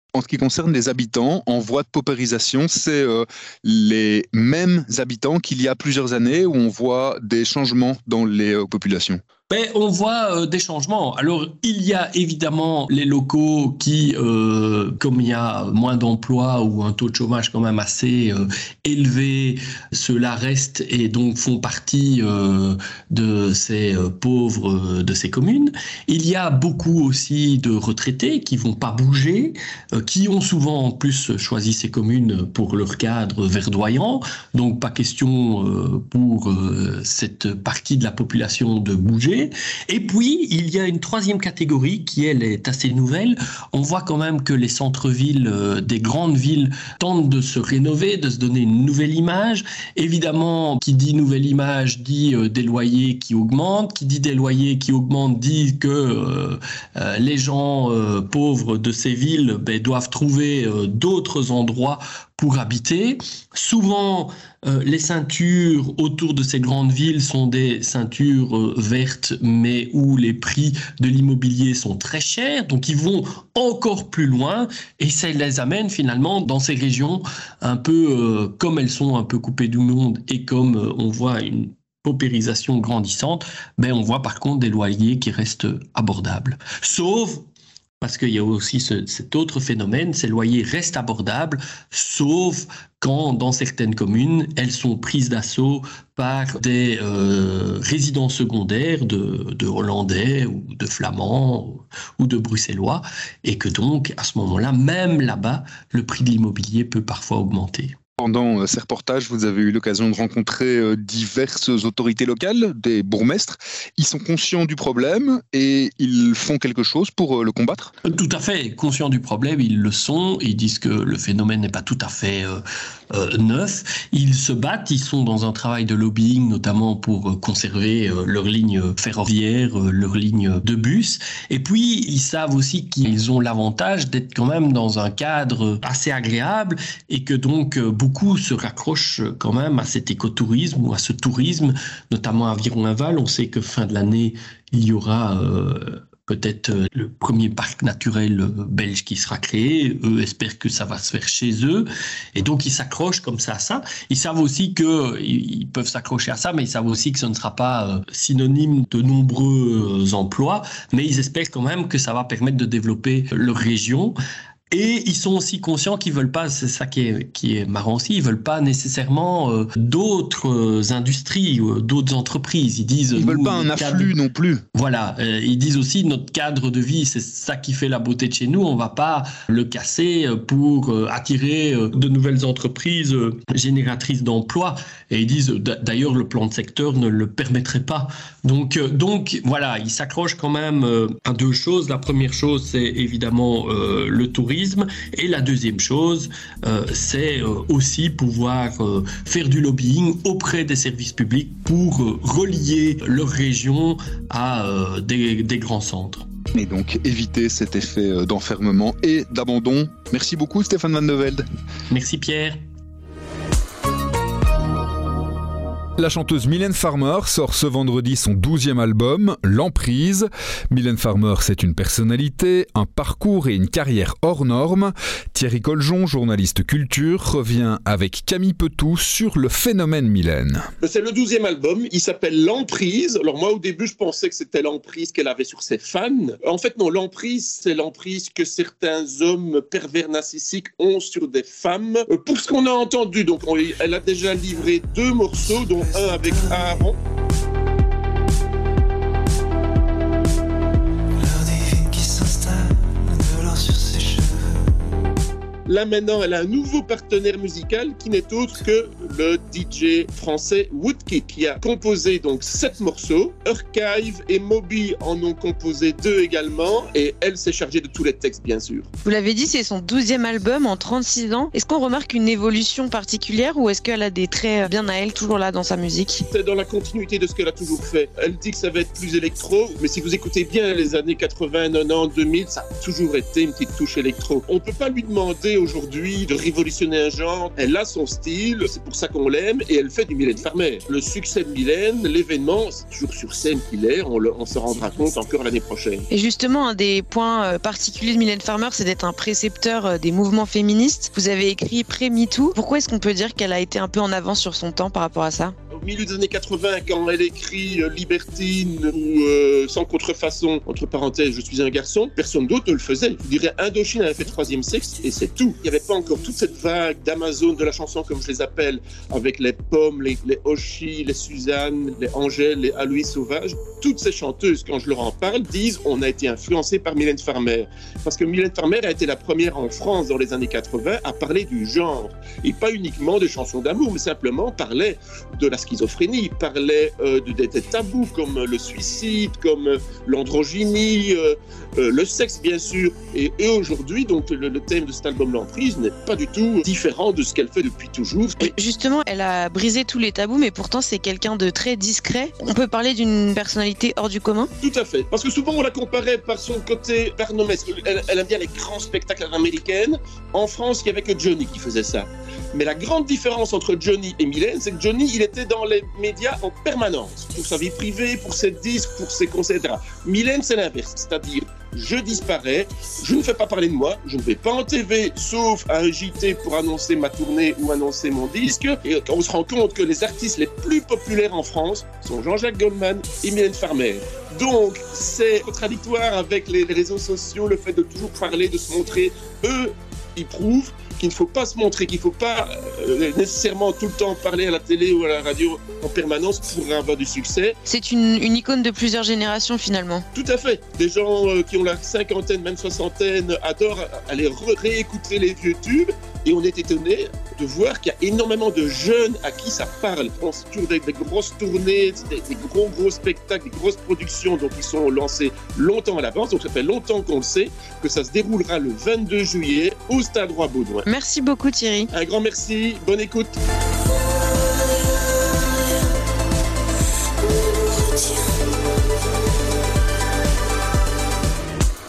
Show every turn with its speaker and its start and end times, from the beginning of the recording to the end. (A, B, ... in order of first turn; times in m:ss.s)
0:00.1-0:09.2 A
0:09.5-1:27.4 B
1:28.0-1:47.9 B
1:48.2-1:57.9 A
1:58.1-2:02.6 B
2:03.1-2:44.2 B
2:44.7-2:54.1 B
2:53.2-2:54.6 A
2:54.8-3:26.3 B
3:26.6-3:28.0 A
3:26.8-3:30.7 C
3:30.7-3:31.4 A
3:31.9-3:32.6 B
3:36.0-3:50.7 C
3:50.8-4:07.0 D
4:15.7-4:28.9 D
4:29.0-4:36.3 E
4:36.3-4:56.0 D
4:56.1-5:05.6 E
5:05.7-5:48.5 D
5:48.4-5:54.5 E
5:54.6-6:37.6 D
6:37.7-6:40.0 E
6:40.1-7:00.8 D
7:00.9-7:01.9 E
7:01.9-7:03.4 D